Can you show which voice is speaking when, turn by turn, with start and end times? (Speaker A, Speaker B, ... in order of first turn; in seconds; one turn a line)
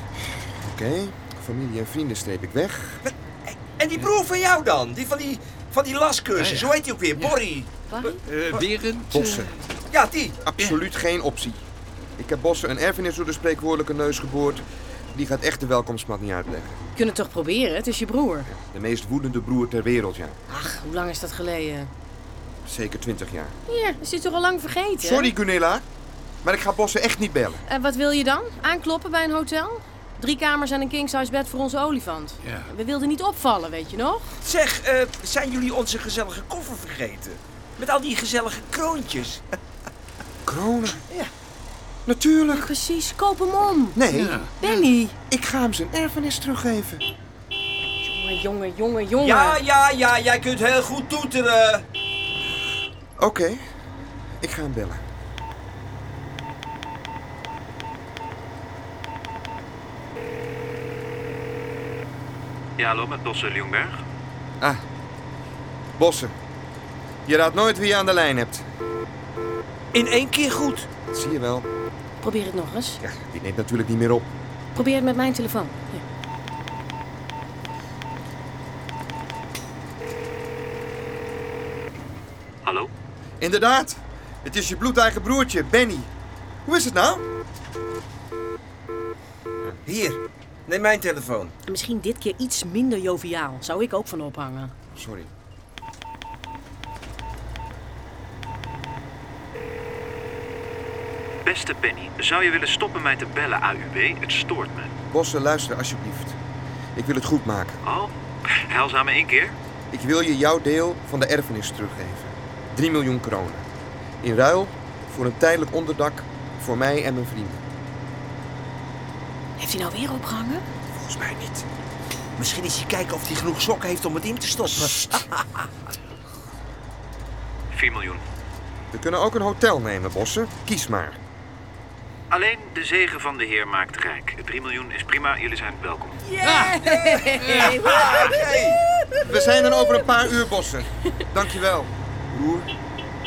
Speaker A: 0.6-3.0
Speaker B: 3.0-7.7
Speaker C: 6.4-6.7
Speaker D: 7.9-8.2
Speaker C: 8.3-9.5
Speaker A: 8.6-9.5
Speaker B: 9.9-10.3
Speaker A: 10.4-11.6
Speaker A: 12.2-14.6
Speaker A: 15.1-16.7
Speaker D: 16.9-18.5
Speaker A: 18.5-20.4
Speaker D: 20.5-21.9
Speaker A: 22.6-23.5
Speaker D: 23.7-25.3
Speaker A: 25.0-25.8
Speaker A: 26.4-27.6
Speaker D: 27.7-34.3
Speaker B: 34.4-39.4
Speaker A: 40.5-41.0
Speaker A: 42.0-42.7
Speaker D: 42.5-44.0
Speaker A: 43.9-44.4
Speaker C: 44.1-44.5
Speaker D: 44.6-45.1
Speaker A: 45.3-47.0
Speaker D: 48.0-49.6
Speaker B: 49.2-51.8
Speaker A: 53.2-53.6
Speaker A: 54.4-55.0
Speaker E: 62.8-64.0
Speaker A: 66.0-66.3
Speaker A: 67.2-68.6
Speaker B: 69.9-70.9
Speaker A: 71.1-71.7
Speaker D: 72.2-73.0
Speaker A: 73.0-74.3
Speaker D: 74.7-76.0
Speaker E: 82.6-82.9
Speaker A: 83.4-86.1
Speaker A: 86.7-87.2
Speaker B: 89.8-91.5
Speaker D: 91.7-94.7
Speaker A: 95.0-95.3
Speaker E: 101.4-104.9
Speaker A: 105.1-106.4
Speaker A: 106.9-107.8
Speaker E: 107.8-109.5
Speaker A: 109.9-113.6
Speaker A: 114.2-117.6
Speaker D: 119.6-120.6
Speaker A: 121.0-121.6
Speaker B: 122.4-125.3
Speaker E: 127.7-128.2
Speaker A: 128.9-131.2
Speaker E: 132.3-136.2
Speaker D: 136.2-138.4
Speaker C: 136.4-136.8
Speaker C: 137.3-137.9
Speaker B: 137.9-138.8
Speaker A: 139.2-142.7